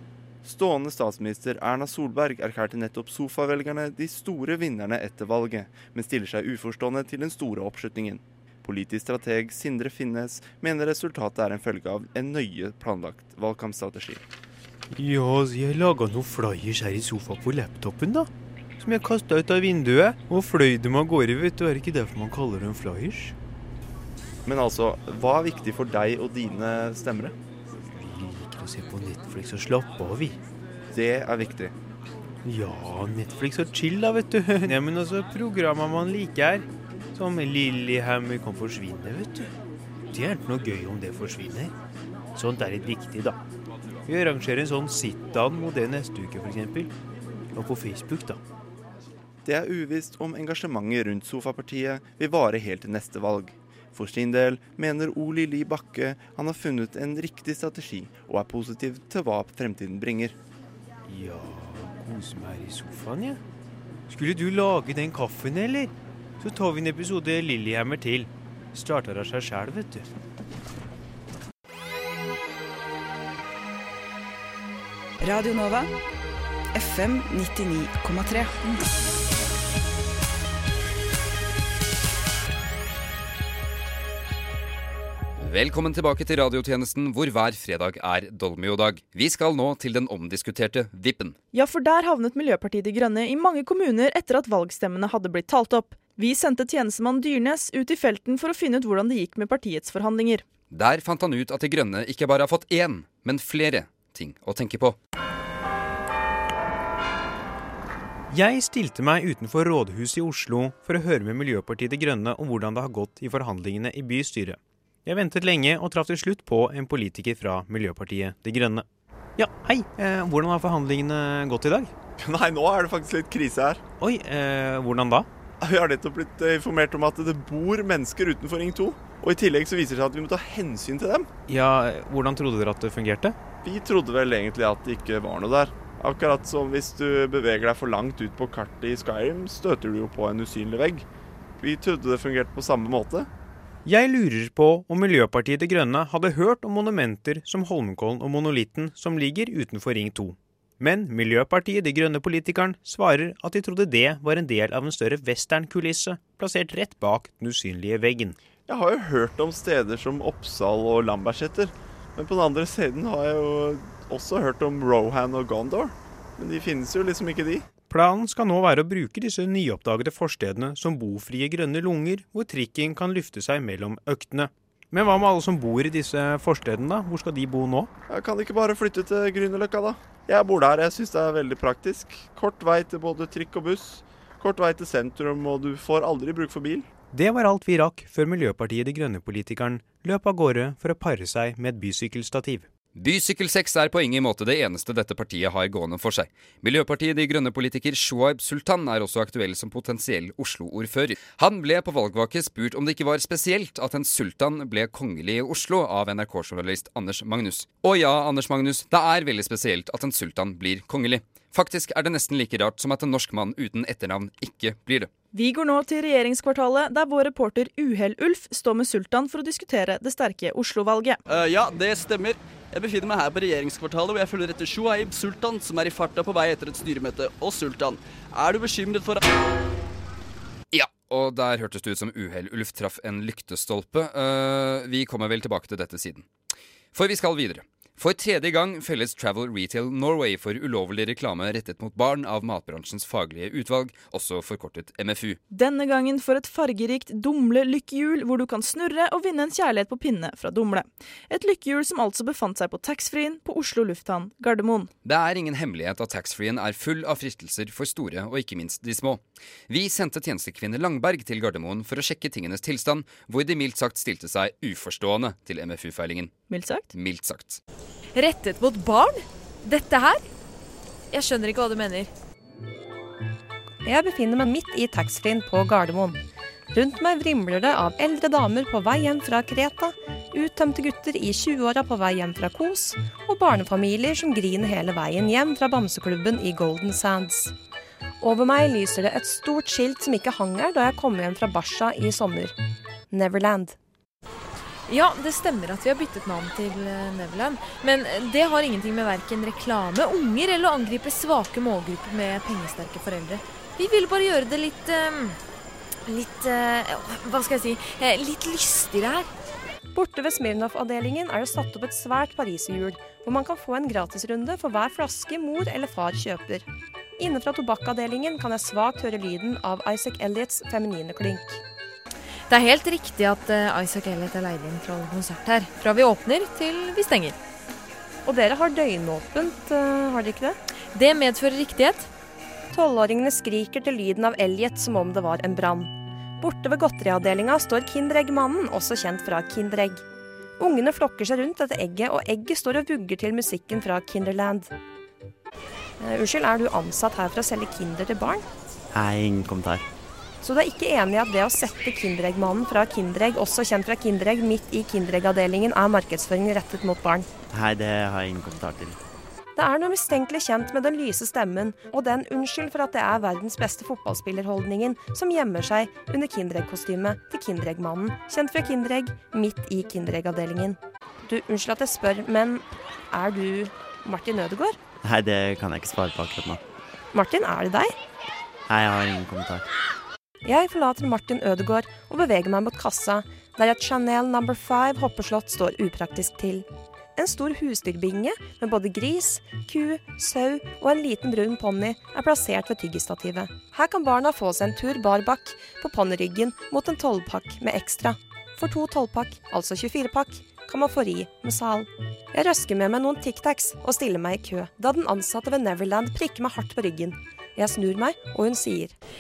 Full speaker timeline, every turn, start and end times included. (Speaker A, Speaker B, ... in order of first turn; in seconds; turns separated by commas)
Speaker A: 0.4-14.2, Speaker B: 14.9-23.4, Speaker A: 24.5-27.4, Speaker B: 27.8-30.4, Speaker A: 30.9-31.7, Speaker B: 32.4-39.5, Speaker B: 40.1-41.7, Speaker B: 42.4-43.4, Speaker B: 44.1-46.9, Speaker B: 47.5-48.4, Speaker A: 49.4-60.4, Speaker B: 61.1-63.4, Speaker B: 64.1-70.1, Speaker C: 75.2-75.9, Speaker C: 76.7-78.8, Speaker D: 85.4-91.4, Speaker E: 91.5-100.4, Speaker D: 100.7-105.0, Speaker B: 108.3-118.8, Speaker B: 119.4-121.9, Speaker A: 122.2-123.8, Speaker B: 124.0-125.3, Speaker A: 125.6-131.3, Speaker B: 131.5-133.4, Speaker A: 133.6-141.1, Speaker A: 141.6-143.3, Speaker B: 143.8-158.4, Speaker A: 158.7-167.7, Speaker B: 167.9-177.9, Speaker A: 178.1-186.9, Speaker B: 187.1-192.7, Speaker D: 192.9-215.1, Speaker E: 215.3-221.2, Speaker F: 221.3-229.2, Speaker D: 230.7-236.3, Speaker D: 236.9-245.4, Speaker E: 245.5-254.9, Speaker D: 255.0-266.3, Speaker E: 266.5-266.9, Speaker D: 266.9-267.6, Speaker G: 268.1-270.2, Speaker G: 271.1-272.1, Speaker H: 273.9-276.2, Speaker H: 276.7-287.5, Speaker H: 288.2-292.5, Speaker H: 293.1-293.8, Speaker G: 294.9-305.4, Speaker G: 306.1-309.3, Speaker H: 309.9-316.7, Speaker H: 317.2-321.6, Speaker G: 322.5-327.4, Speaker H: 328.2-330.6, Speaker G: 330.9-332.1, Speaker H: 332.7-340.0, Speaker H: 340.6-344.7, Speaker H: 346.0-348.4, Speaker I: 348.9-349.9, Speaker H: 350.4-357.3, Speaker I: 357.5-359.0, Speaker H: 359.6-374.8, Speaker I: 375.0-376.6, Speaker H: 377.1-377.9, Speaker I: 378.7-379.7, Speaker H: 380.4-408.9